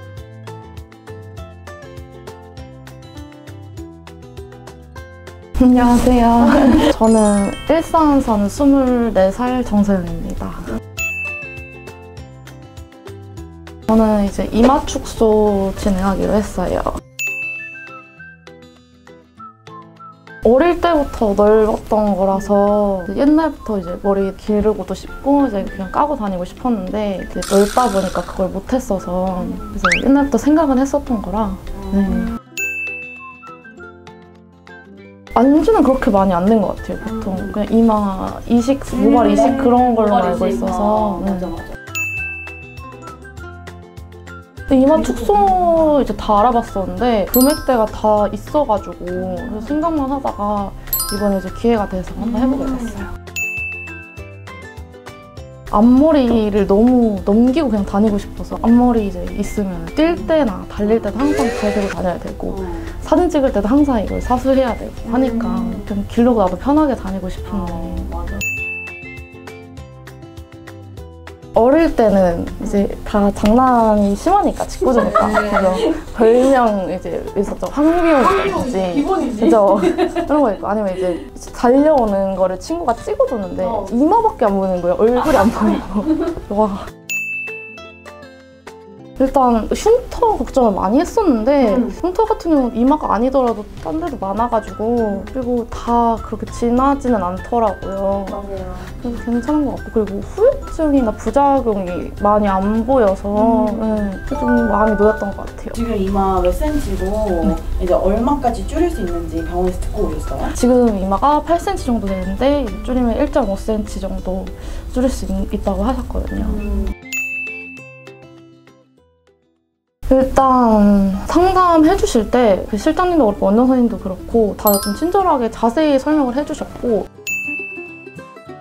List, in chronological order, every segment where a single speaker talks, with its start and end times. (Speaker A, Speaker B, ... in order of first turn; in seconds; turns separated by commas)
Speaker A: 5.6-10.7, Speaker A: 13.9-17.0, Speaker A: 20.4-32.3, Speaker A: 35.3-41.5, Speaker B: 39.0-41.7, Speaker A: 44.7-53.1, Speaker B: 45.2-45.7, Speaker B: 52.3-53.0, Speaker A: 55.7-68.2, Speaker B: 65.2-65.8, Speaker B: 67.5-68.4, Speaker A: 71.5-86.9, Speaker B: 75.0-76.0, Speaker B: 78.2-80.2, Speaker B: 83.6-83.9, Speaker A: 89.2-105.8, Speaker B: 98.3-98.9, Speaker B: 103.4-104.0, Speaker B: 105.7-110.5, Speaker A: 110.5-116.7, Speaker B: 116.5-116.9, Speaker A: 120.1-127.1